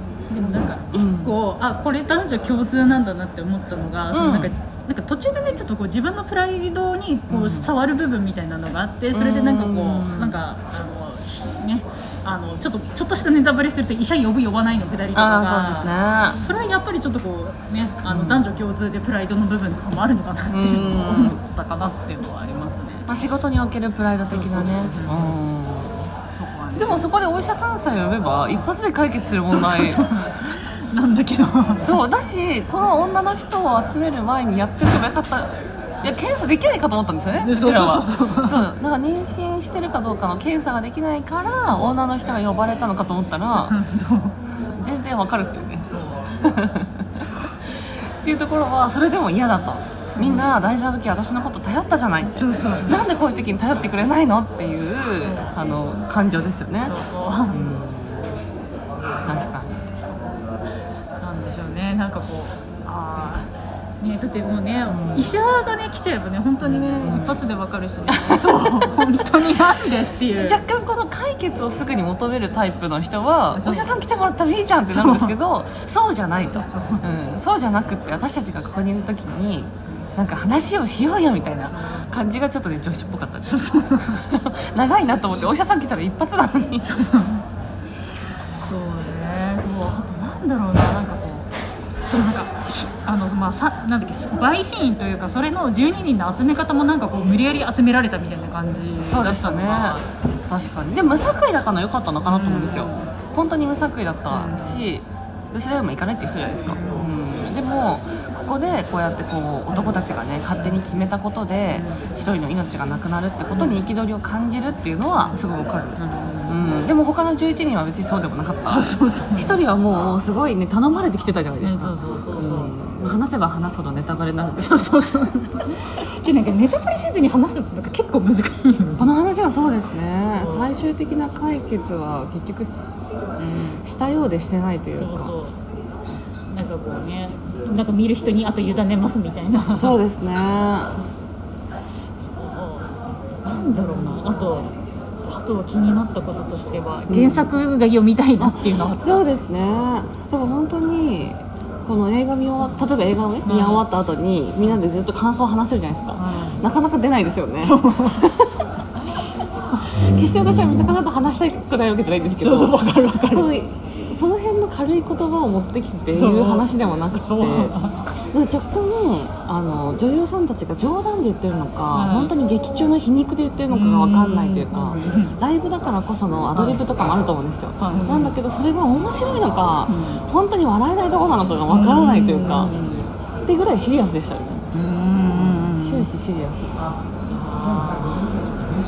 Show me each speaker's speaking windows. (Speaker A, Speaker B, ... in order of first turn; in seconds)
Speaker A: 0.3-23.1, 24.3-25.4, 26.3-27.1, 29.4-31.9, 37.3-38.6, 41.6-41.9, 43.6-44.3, 45.9-46.3, 50.1-50.5, 52.3-53.0, 55.2-55.5, 56.8-57.7, 61.2-63.5, 64.0-70.6, 73.5-74.0, 74.8-75.3, 76.5-77.0, 83.4-84.2, 86.8-87.4, 88.6-91.5, 92.0-100.1, 102.3-103.1, 104.3-104.9, 106.7-107.1, 109.7-110.0, 111.7-112.0, 113.5-113.8, 116.0-116.6, 118.6-119.6, 121.6-122.7, 124.6-125.7, 126.2-129.1, 130.3-130.7, 133.4-133.8, 134.9-135.6, 136.5-139.9, 142.2-142.9, 143.4-144.7, 145.3-149.3, 153.4-153.8, 156.1-156.6, 157.6-158.2, 162.3-163.5, 166.1-168.0, 171.9-172.3, 173.7-175.4, 176.6-176.8, 177.8-178.3, 179.9-180.2, 181.7-183.1, 184.7-186.1, 187.3-188.1
Speaker B: 0.4-1.4, 4.1-4.5, 7.3-7.7, 9.1-10.4, 15.1-16.4, 18.1-18.5, 20.5-21.4, 23.1-26.1, 26.7-30.0, 31.8-43.8, 44.8-46.9, 48.1-57.0, 57.5-58.3, 59.3-59.7, 64.9-65.3, 66.6-67.4, 68.1-69.0, 70.3-86.9, 99.1-100.0, 100.5-124.9, 129.0-133.0, 133.8-135.3, 139.8-140.9, 147.1-147.5, 148.4-158.6, 160.0-167.8, 168.3-182.7, 183.5-184.7, 185.7-186.9